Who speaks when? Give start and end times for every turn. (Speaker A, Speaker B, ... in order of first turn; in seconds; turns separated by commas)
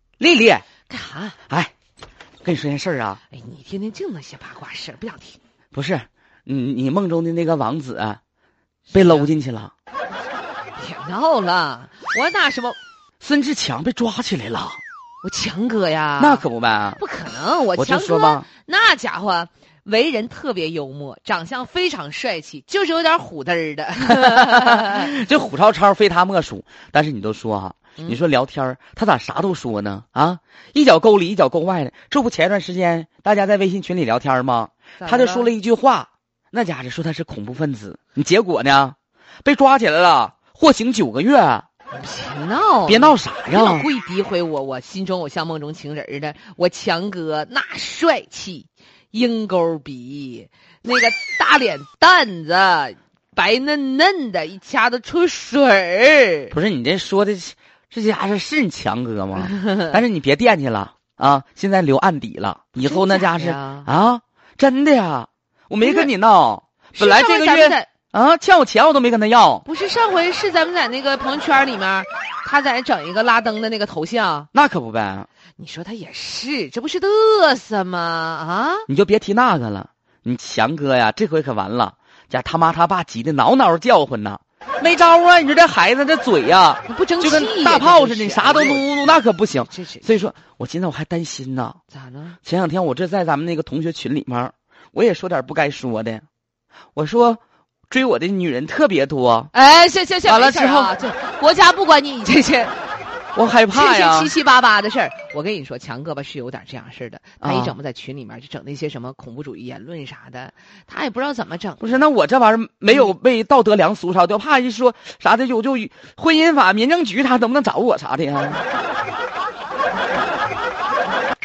Speaker A: 0.2-0.7, Speaker B: 0.9-1.4, Speaker A: 2.4-3.2, Speaker B: 3.3-5.4, Speaker A: 5.7-8.2, Speaker B: 8.9-9.3, Speaker A: 8.9-9.7, Speaker B: 10.8-12.8, Speaker A: 13.2-14.8, Speaker B: 15.2-16.4, Speaker A: 16.2-17.0, Speaker B: 17.0-25.1, Speaker A: 17.8-18.5, Speaker A: 24.1-41.7, Speaker B: 35.0-35.5, Speaker B: 41.9-56.5, Speaker A: 42.9-43.9, Speaker A: 56.5-69.6, Speaker B: 59.4-60.0, Speaker B: 62.9-63.9, Speaker B: 65.8-66.1, Speaker B: 67.0-67.9, Speaker B: 69.7-74.5, Speaker A: 74.5-75.3, Speaker B: 75.6-78.9, Speaker A: 78.9-91.8, Speaker B: 86.9-90.3, Speaker B: 91.9-92.4, Speaker A: 92.4-96.2, Speaker A: 96.9-99.5, Speaker B: 99.5-102.9, Speaker A: 100.2-100.9, Speaker A: 103.3-104.3, Speaker B: 103.7-112.0, Speaker A: 107.4-107.7, Speaker A: 111.8-118.6